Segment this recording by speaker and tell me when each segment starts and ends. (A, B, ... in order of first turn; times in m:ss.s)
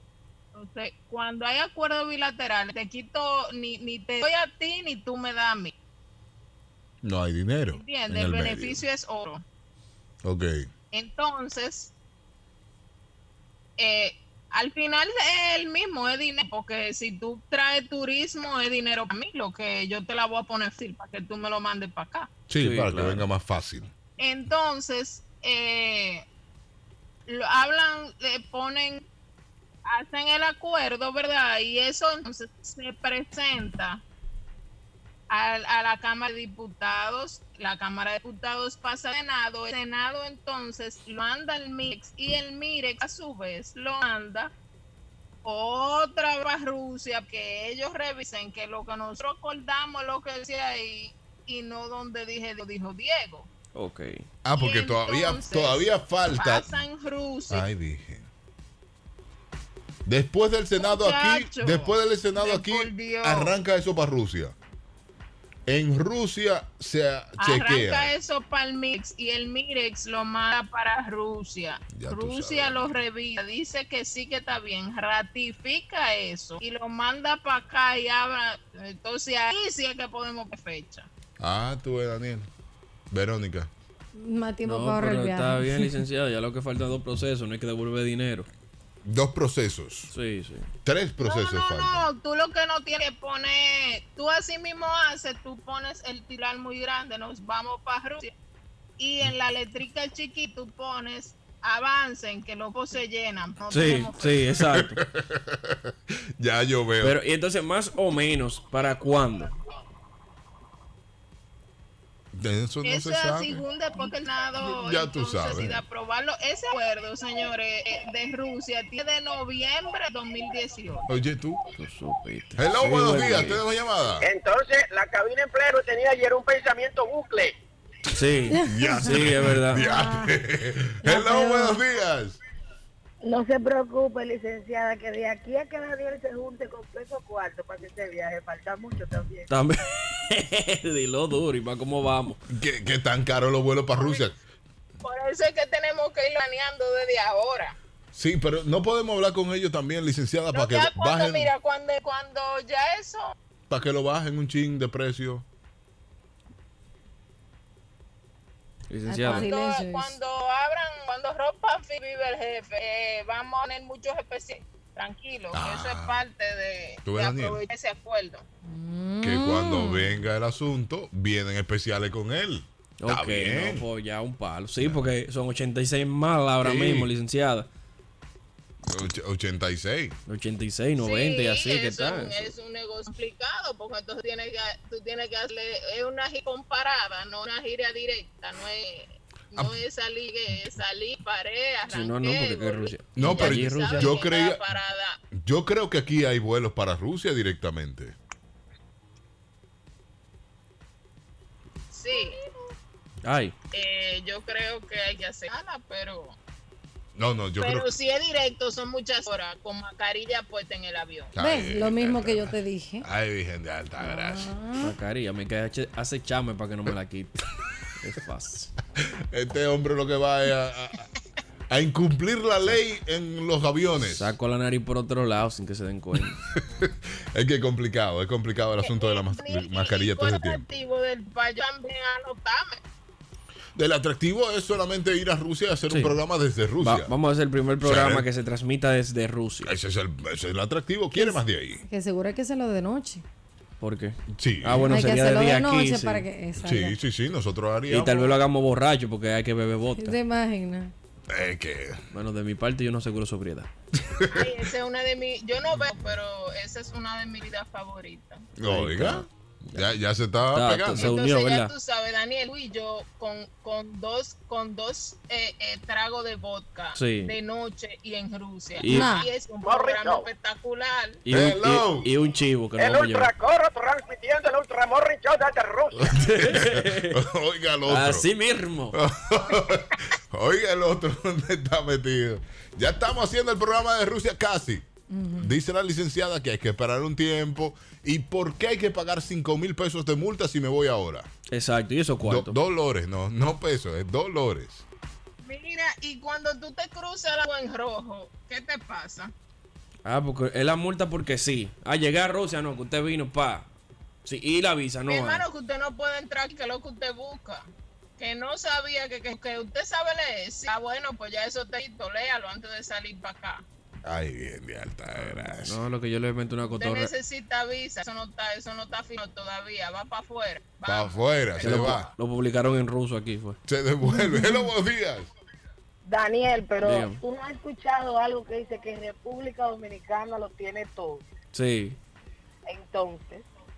0:00.5-0:05.7 A
0:07.0-0:08.8 B
0:07.7-0:09.4 A
0:10.2-0:10.7 B
0:10.9-0:11.9 A
0:13.8-0:22.3 A
0:22.5-0:23.9 B
0:22.6-0:23.2 C
0:24.2-0:26.2 A
0:27.3-0:29.0 A
0:29.8-0:34.0 A
0:35.3-0:44.5 A
0:45.4-0:53.5 A
0:53.7-0:54.2 C
0:54.4-0:56.8 B
0:54.5-0:57.7 A
0:57.5-0:58.3 B
1:00.0-1:04.5 B
1:00.8-1:03.5 A
1:05.7-1:08.1 B
1:07.4-1:21.1 A
1:11.9-1:12.9 B
1:21.4-1:22.5 B
1:23.1-1:23.7 B
1:24.1-1:26.0 D
1:24.6-1:28.5 C
1:29.0-1:30.1 B
1:30.1-1:30.7 C
1:30.8-1:32.1 B
1:31.2-1:38.3 A
1:39.0-1:44.4 A
1:43.7-1:45.0 C
1:44.7-1:47.2 B
1:47.0-1:49.5 C
1:52.3-1:53.6 B
1:52.8-2:01.1 A
1:54.6-1:55.8 B
2:01.1-2:01.6 B
2:01.7-2:03.6 C
2:02.6-2:04.3 B
2:04.2-2:07.5 E
2:08.1-2:09.9 C
2:08.5-2:09.2 D
2:08.6-2:12.4 B
2:09.7-2:10.3 D
2:11.0-2:11.8 D
2:13.2-2:19.5 F
2:19.5-2:22.4 C
2:22.5-2:24.4 B
2:24.0-2:24.2 A
2:25.0-2:27.8 A
2:28.1-2:31.5 B
2:30.5-2:33.3 A
2:33.7-2:35.4 B
2:38.9-2:39.5 C
2:39.1-2:40.2 D
2:39.3-2:48.4 A
2:45.5-2:46.2 B
2:47.0-2:47.6 B
2:48.6-2:50.1 D
2:49.2-2:53.8 B
2:53.0-2:57.7 C
2:56.6-2:57.1 B
2:58.8-3:00.2 B
3:00.3-3:02.5 C
3:01.0-3:15.2 A
3:11.9-3:14.2 C
3:13.2-3:14.6 B
3:15.3-3:18.2 B
3:21.9-3:22.4 A
3:23.2-3:23.5 C
3:23.7-3:26.4 A
3:27.2-3:27.9 B
3:27.6-3:31.3 A
3:31.3-3:34.5 B
3:31.4-3:33.0 D
3:34.0-3:35.0 D
3:34.8-3:37.4 C
3:38.0-3:38.7 C
3:39.3-3:41.1 B
3:41.7-3:44.3 B
3:44.0-3:46.4 C
3:46.5-3:50.6 B
3:48.8-3:52.8 A
3:53.7-3:57.1 B
3:55.9-3:56.2 C
3:56.8-3:59.7 C
3:57.8-3:58.3 B
3:59.6-4:01.8 B
4:01.1-4:03.2 D
4:03.8-4:06.3 C
4:04.3-4:04.9 B
4:04.8-4:07.0 D
4:06.6-4:08.4 B
4:07.9-4:10.2 C
4:10.0-4:10.9 D
4:11.3-4:12.0 B
4:12.1-4:13.7 C
4:14.0-4:14.5 B
4:14.3-4:18.4 A
4:18.6-4:21.1 B
4:18.6-4:19.9 C
4:20.5-4:21.7 C
4:20.9-4:31.2 A
4:27.0-4:27.3 C
4:28.8-4:29.2 C
4:28.9-4:29.3 D
4:29.6-4:30.3 E
4:31.2-4:33.3 C
4:31.3-4:32.1 B
4:32.8-4:36.1 E
4:35.9-4:38.3 B
4:36.1-4:37.2 C
4:37.9-4:39.0 C
4:38.9-4:44.8 B
4:45.1-4:45.6 D
4:45.4-4:51.3 B
4:51.5-4:52.5 C
4:52.2-4:54.8 B
4:55.4-4:59.3 A
5:00.0-5:03.7 C
5:04.2-5:05.4 C
5:05.1-5:13.6 A
5:14.0-5:15.8 B
5:15.1-5:17.1 C
5:16.8-5:22.1 A
5:20.8-5:22.1 B
5:21.6-5:23.6 C
5:23.7-5:25.3 B
5:24.0-5:24.7 D
5:26.0-5:31.2 F
5:26.8-5:27.2 C
5:31.5-5:32.0 C
5:32.7-5:33.5 F